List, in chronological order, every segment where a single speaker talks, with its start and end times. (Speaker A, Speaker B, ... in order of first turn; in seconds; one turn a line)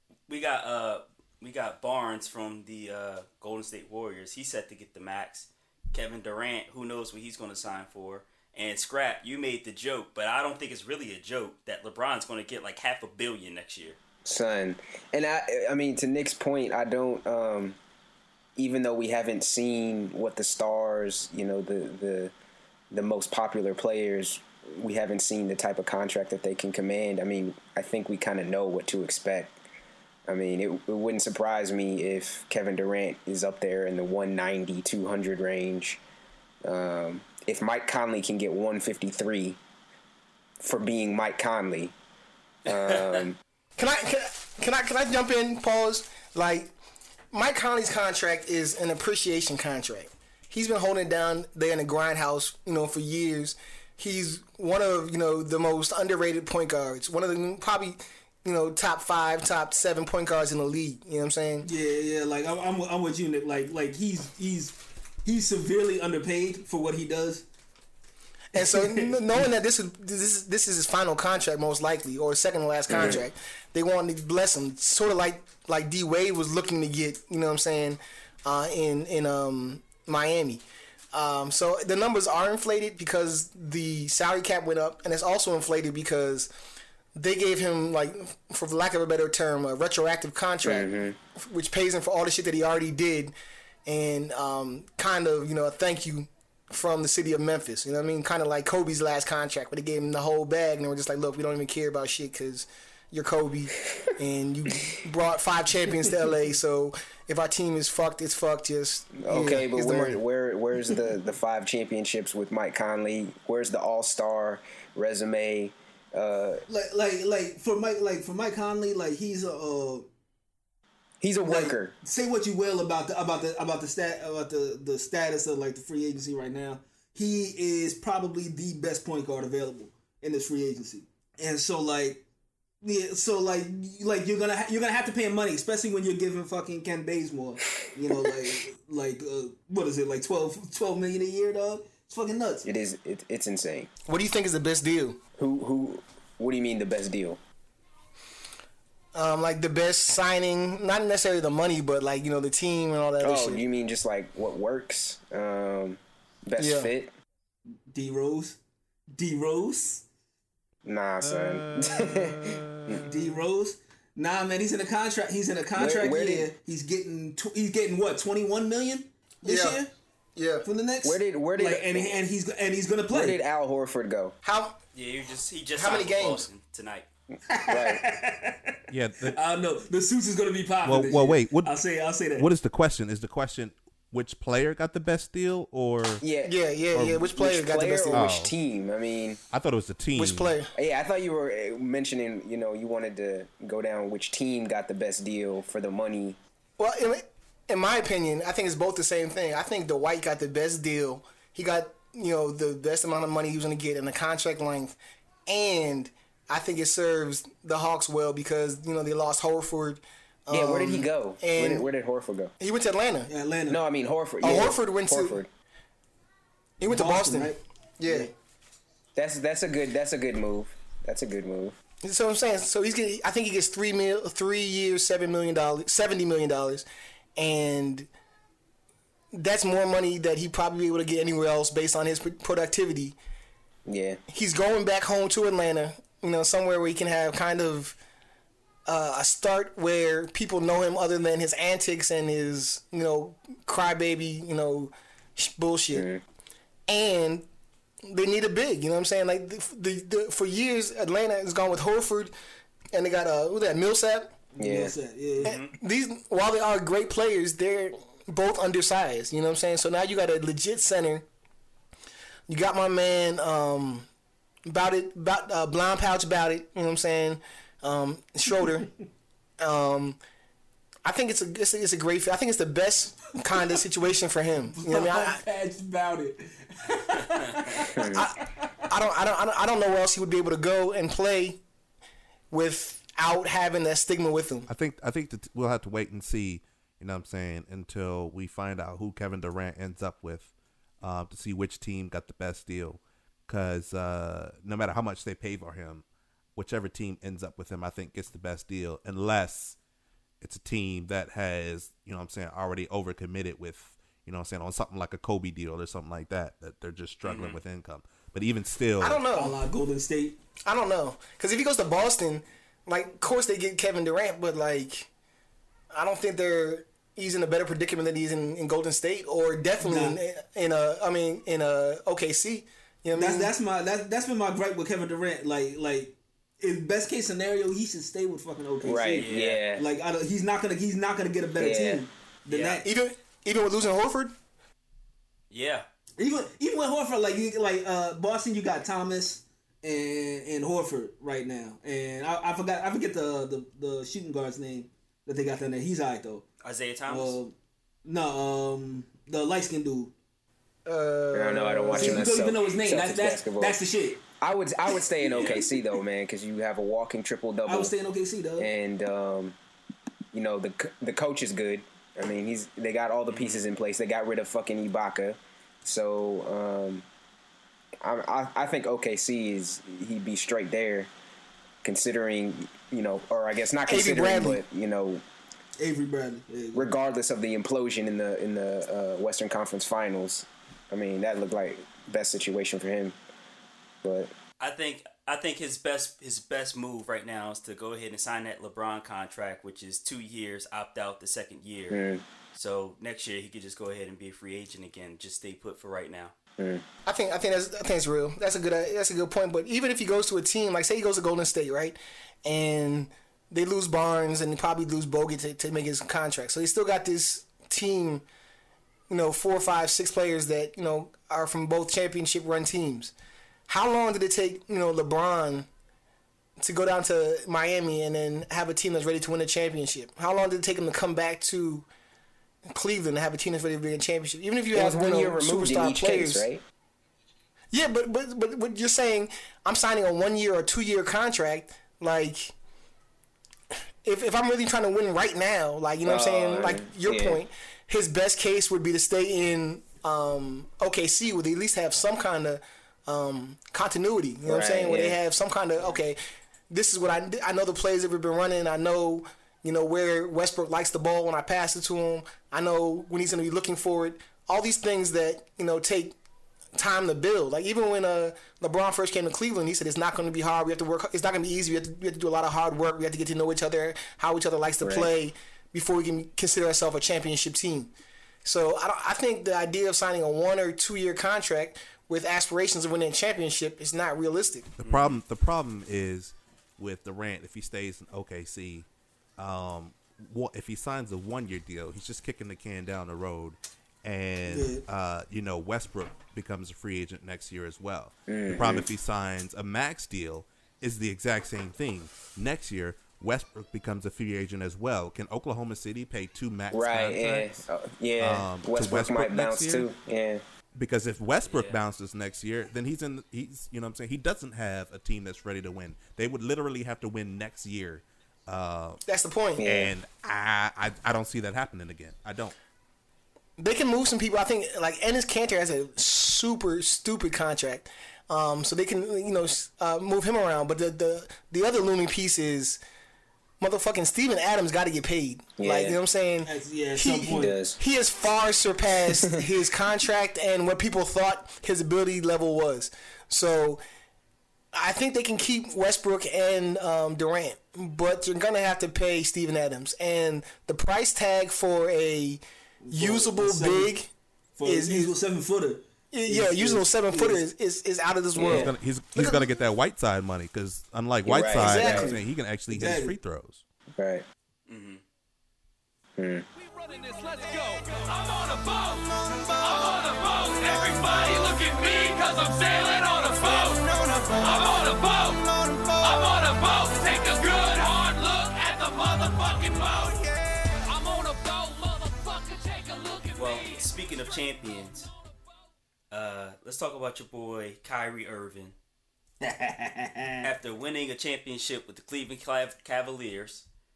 Speaker A: 0.3-14.0
Speaker B: 14.2-17.8
Speaker B: 18.6-22.3
Speaker B: 22.9-29.5
Speaker B: 30.3-36.0
Speaker B: 36.6-39.6
Speaker B: 40.6-41.9
Speaker B: 42.7-43.4
Speaker A: 42.7-43.0
Speaker C: 43.8-46.7
Speaker C: 47.3-61.7
Speaker D: 61.6-67.5
Speaker C: 68.5-86.5
Speaker D: 68.5-69.1
Speaker B: 72.9-73.2
Speaker C: 87.1-93.3
Speaker B: 90.6-91.2
Speaker C: 93.9-110.2
Speaker B: 109.2-116.6
Speaker D: 116.7-120.1
Speaker B: 121.2-122.0
Speaker D: 121.4-132.2
Speaker D: 132.8-142.7
Speaker B: 142.6-143.9
Speaker C: 144.1-145.2
Speaker B: 145.4-147.4
Speaker C: 149.1-153.7
Speaker B: 153.2-157.1
Speaker C: 156.6-156.9
Speaker D: 157.9-158.6
Speaker D: 159.1-160.0
Speaker B: 160.8-163.3
Speaker E: 161.2-162.9
Speaker D: 163.1-169.9
Speaker B: 165.8-166.5
Speaker C: 169.4-169.8
Speaker C: 170.3-170.7
Speaker D: 170.7-173.4
Speaker B: 171.0-172.2
Speaker B: 173.1-174.3
Speaker C: 174.4-174.8
Speaker A: 174.9-177.1
Speaker C: 175.8-176.5
Speaker D: 177.5-178.8
Speaker B: 177.7-178.0
Speaker E: 178.9-179.4
Speaker D: 179.3-182.5
Speaker E: 180.8-181.8
Speaker E: 182.3-186.2
Speaker B: 186.2-186.6
Speaker C: 186.4-188.3
Speaker E: 186.9-187.2
Speaker B: 187.1-189.4
Speaker E: 188.1-188.5
Speaker E: 189.5-190.5
Speaker C: 190.2-190.7
Speaker B: 190.8-196.4
Speaker C: 196.8-211.8
Speaker B: 210.5-212.5
Speaker C: 212.6-213.3
Speaker D: 213.3-213.8
Speaker B: 213.7-215.5
Speaker C: 214.4-215.4
Speaker C: 216.8-218.3
Speaker D: 216.9-218.3
Speaker B: 219.2-221.8
Speaker C: 222.0-228.1
Speaker C: 229.3-233.2
Speaker B: 233.8-234.2
Speaker C: 234.3-238.0
Speaker C: 238.9-246.1
Speaker B: 245.9-246.2
Speaker C: 246.9-247.5
Speaker C: 248.1-252.3
Speaker C: 252.9-254.3
Speaker D: 254.5-255.5
Speaker B: 254.6-254.9
Speaker A: 255.4-255.7
Speaker C: 255.4-261.2
Speaker C: 262.5-264.1
Speaker C: 264.7-268.9
Speaker C: 269.6-270.2
Speaker C: 271.0-275.4
Speaker D: 274.8-278.5
Speaker B: 277.9-278.2
Speaker C: 278.9-281.6
Speaker C: 282.5-284.7
Speaker E: 284.7-296.0
Speaker E: 296.6-299.8
Speaker E: 300.4-309.2
Speaker A: 307.2-307.6
Speaker C: 309.0-309.6
Speaker D: 309.3-310.4
Speaker C: 310.7-315.1
Speaker C: 315.9-323.5
Speaker D: 319.8-320.2
Speaker D: 323.1-332.8
Speaker B: 328.8-329.9
Speaker A: 329.1-329.6
Speaker B: 331.6-332.0
Speaker A: 332.5-332.8
Speaker C: 332.8-334.3
Speaker A: 335.5-335.9
Speaker D: 336.2-346.4
Speaker A: 346.6-347.4
Speaker D: 347.1-347.5
Speaker D: 348.0-350.1
Speaker C: 350.9-352.3
Speaker B: 351.3-353.8
Speaker D: 351.9-354.2
Speaker B: 354.4-357.9
Speaker A: 355.2-355.6
Speaker D: 355.3-355.9
Speaker D: 357.6-358.7
Speaker B: 358.6-359.6
Speaker B: 360.3-367.0
Speaker A: 363.3-363.6
Speaker B: 368.0-371.1
Speaker B: 371.8-375.2
Speaker C: 373.9-374.6
Speaker D: 375.8-376.9
Speaker B: 376.7-383.2
Speaker B: 384.0-384.3
Speaker A: 384.6-392.0
Speaker B: 391.9-392.2
Speaker A: 392.5-396.3
Speaker B: 396.6-396.8
Speaker C: 397.1-408.2
Speaker C: 409.1-413.1
Speaker C: 413.7-415.7
Speaker C: 416.6-421.9
Speaker C: 422.7-426.5
Speaker B: 424.7-426.6
Speaker C: 427.7-432.5
Speaker C: 434.0-446.2
Speaker B: 436.0-437.4
Speaker B: 444.5-445.2
Speaker C: 446.7-456.2
Speaker C: 456.8-467.9
Speaker B: 464.8-465.1
Speaker C: 468.4-474.7
Speaker E: 474.8-478.9
Speaker A: 474.8-475.1
Speaker E: 479.4-497.6
Speaker D: 484.5-484.8
Speaker B: 488.3-488.9
Speaker B: 496.7-500.4
Speaker E: 498.2-499.9
Speaker E: 500.8-509.0
Speaker A: 501.5-501.8
Speaker C: 509.1-509.6
Speaker B: 509.6-509.9
Speaker E: 509.6-512.5
Speaker C: 513.6-522.8
Speaker C: 523.6-533.8
Speaker B: 525.6-526.0
Speaker D: 526.5-527.5
Speaker B: 527.3-527.8
Speaker C: 534.7-544.1
Speaker D: 542.8-543.9
Speaker D: 544.6-547.4
Speaker C: 544.6-545.1
Speaker C: 546.1-549.4
Speaker B: 548.4-548.7
Speaker E: 548.4-553.6
Speaker B: 551.2-552.2
Speaker C: 551.5-552.2
Speaker D: 552.7-553.1
Speaker B: 554.0-554.2
Speaker A: 554.7-555.0
Speaker B: 556.2-556.5
Speaker F: 556.6-573.9
Speaker A: 573.3-575.1
Speaker A: 576.1-578.8
Speaker D: 579.4-580.5
Speaker A: 580.4-583.7